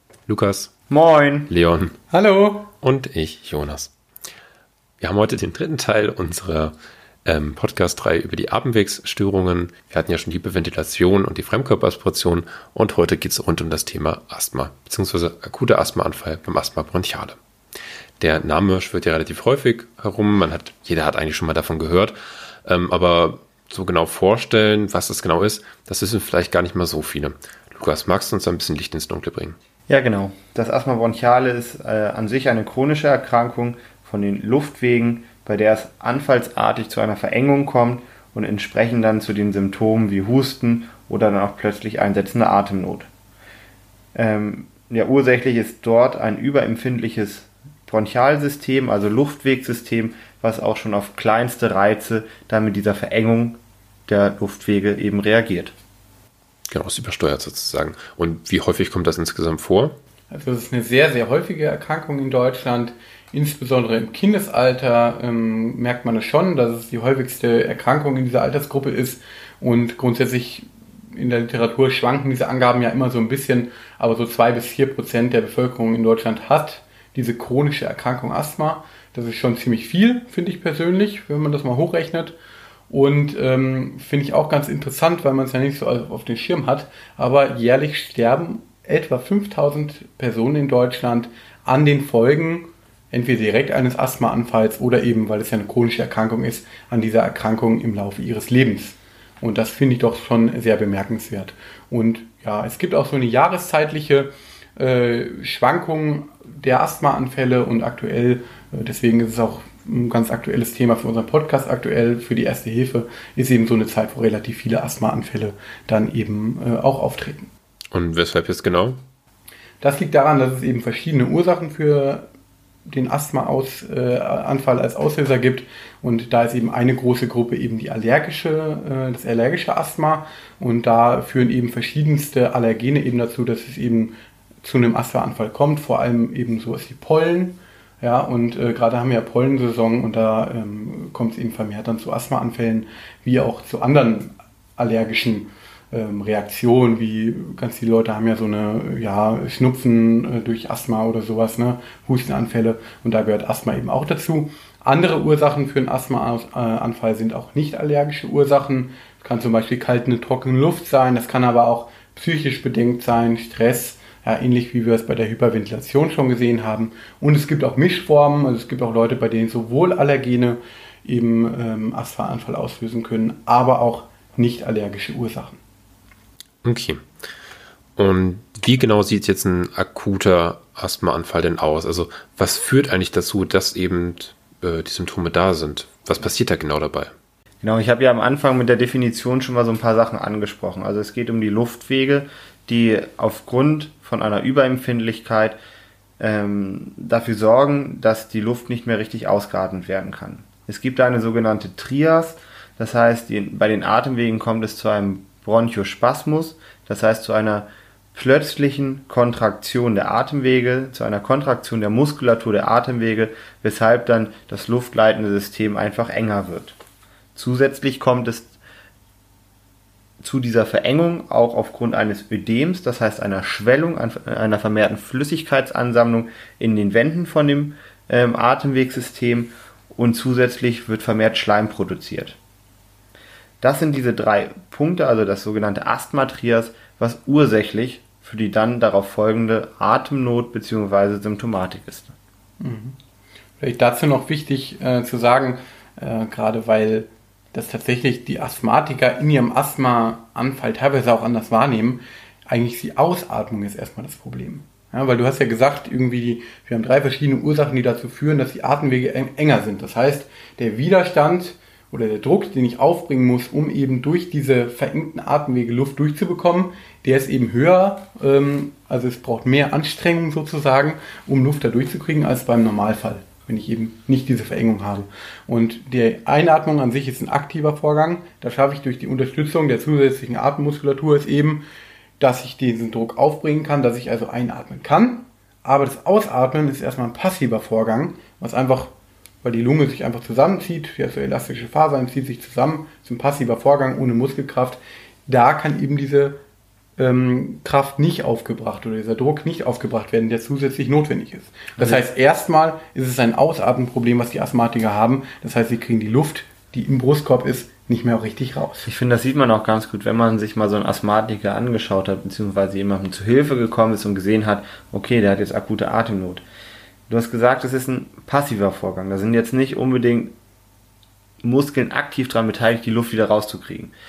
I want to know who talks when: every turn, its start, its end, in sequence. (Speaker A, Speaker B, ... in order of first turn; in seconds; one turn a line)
Speaker A: 0.3-0.7
Speaker B: 0.9-1.5
Speaker A: 1.5-1.9
Speaker C: 2.1-2.7
Speaker A: 2.8-3.9
Speaker A: 5.0-6.7
Speaker A: 7.2-17.4
Speaker A: 18.2-22.1
Speaker A: 22.6-29.6
Speaker B: 29.9-43.1
Speaker B: 44.1-55.7
Speaker A: 56.7-59.9
Speaker C: 60.3-82.4
Speaker C: 82.9-117.5
Speaker A: 117.9-119.0
Speaker C: 119.8-122.3
Speaker C: 122.9-175.6
Speaker A: 176.6-177.0
Speaker A: 178.0-187.1
Speaker B: 187.6-195.6
Speaker B: 196.2-216.8
Speaker B: 217.3-218.5
Speaker B: 220.2-232.4
Speaker B: 233.6-242.1
Speaker C: 242.6-242.9
Speaker C: 243.6-281.6
Speaker C: 282.2-296.4
Speaker C: 297.0-308.9
Speaker B: 301.8-302.0
Speaker B: 308.8-316.4
Speaker B: 317.1-320.3
Speaker B: 321.4-323.9